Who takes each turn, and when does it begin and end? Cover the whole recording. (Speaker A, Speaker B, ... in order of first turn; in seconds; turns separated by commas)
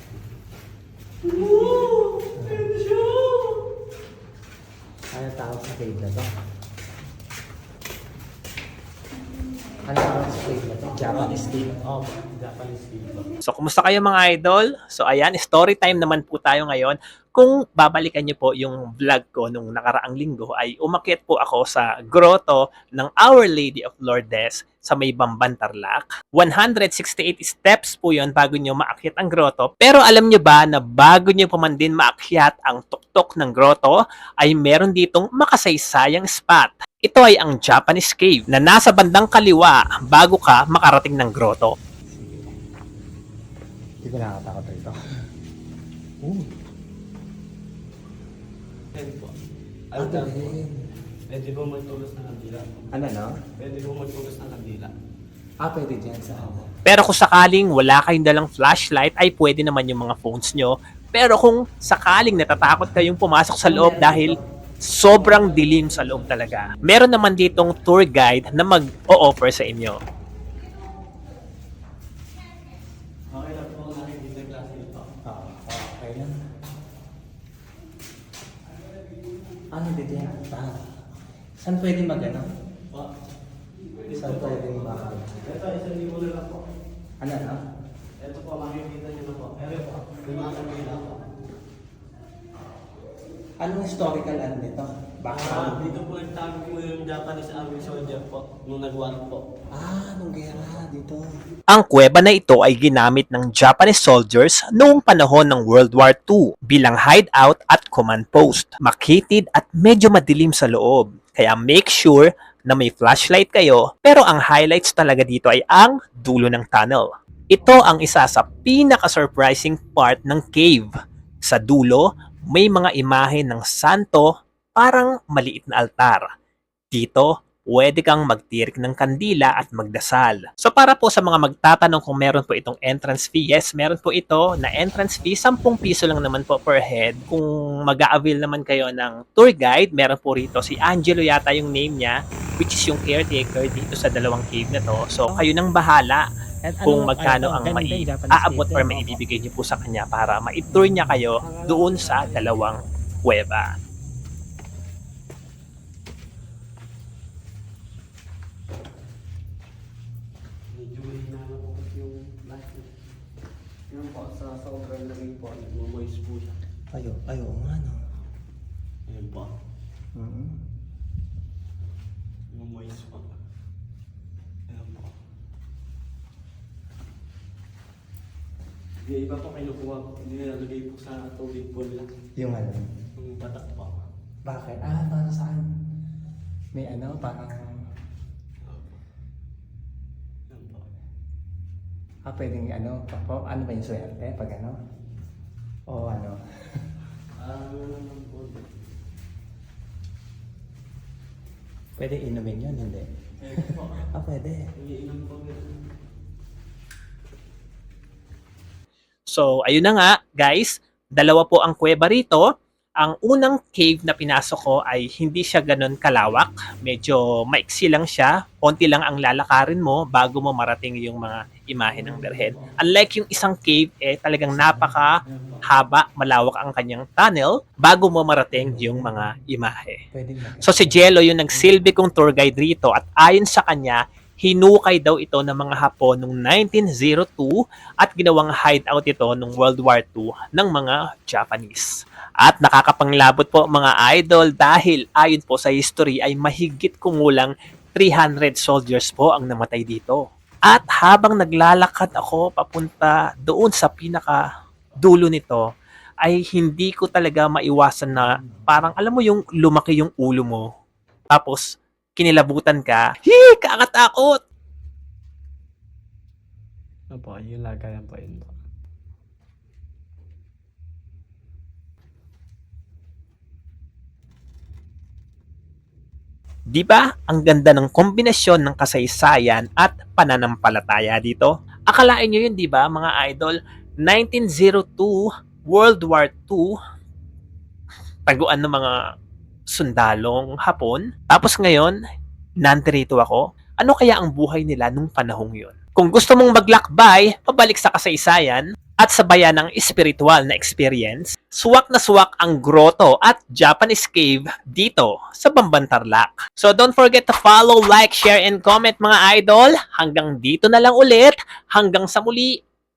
Speaker A: 1.2-3.6, Speaker B: 2.4-2.7, Speaker B: 5.1-6.3, Speaker B: 9.8-11.7, Speaker A: 11.1-13.3, Speaker C: 13.4-41.7, Speaker B: 42.2-42.5, Speaker B: 44.0-45.0, Speaker B: 46.2-46.5, Speaker A: 48.9-49.3, Speaker A: 49.9-50.5, Speaker B: 50.0-50.8, Speaker A: 51.3-52.9, Speaker B: 52.9-53.3, Speaker A: 53.6-54.9, Speaker B: 55.6-56.7, Speaker A: 56.4-56.7, Speaker C: 56.8-64.4, Speaker B: 63.6-64.4, Speaker C: 64.9-70.0, Speaker A: 65.0-66.8, Speaker A: 73.3-75.1, Speaker B: 75.2-76.3, Speaker B: 79.7-80.8, Speaker B: 81.6-82.5, Speaker A: 84.0-86.6, Speaker B: 84.2-85.3, Speaker B: 87.2-87.6, Speaker A: 88.2-91.2, Speaker B: 93.6-95.8, Speaker A: 95.3-99.4, Speaker B: 99.7-101.2, Speaker C: 101.7-120.9, Speaker C: 121.4-126.2, Speaker C: 126.9-146.2, Speaker B: 146.7-149.2, Speaker C: 146.8-153.7, Speaker A: 151.4-152.8, Speaker A: 160.7-162.9, Speaker A: 163.9-166.6, Speaker B: 166.9-168.0, Speaker A: 169.1-169.5, Speaker B: 170.2-170.6, Speaker A: 172.5-173.3, Speaker A: 174.7-175.1, Speaker A: 179.0-182.1, Speaker B: 182.4-182.9, Speaker A: 183.2-184.0, Speaker B: 184.4-185.7, Speaker B: 186.7-187.8, Speaker A: 188.6-189.0, Speaker A: 190.5-190.9, Speaker B: 192.3-194.8, Speaker B: 195.9-196.4, Speaker A: 197.3-198.8, Speaker B: 202.0-203.0, Speaker A: 203.4-204.0, Speaker B: 204.1-204.6, Speaker A: 204.8-205.7, Speaker C: 209.3-212.4, Speaker C: 213.0-225.1, Speaker A: 221.9-222.8, Speaker A: 225.1-225.7, Speaker C: 225.7-230.0, Speaker B: 228.6-229.2, Speaker B: 230.1-231.0, Speaker C: 230.6-241.9, Speaker C: 242.4-254.4, Speaker C: 255.0-255.6, Speaker C: 256.2-260.6, Speaker C: 261.3-261.6, Speaker C: 262.2-264.4, Speaker A: 267.1-268.6, Speaker C: 276.7-285.2, Speaker C: 285.7-286.7, Speaker C: 288.3-289.0, Speaker C: 289.8-292.0, Speaker C: 292.6-312.5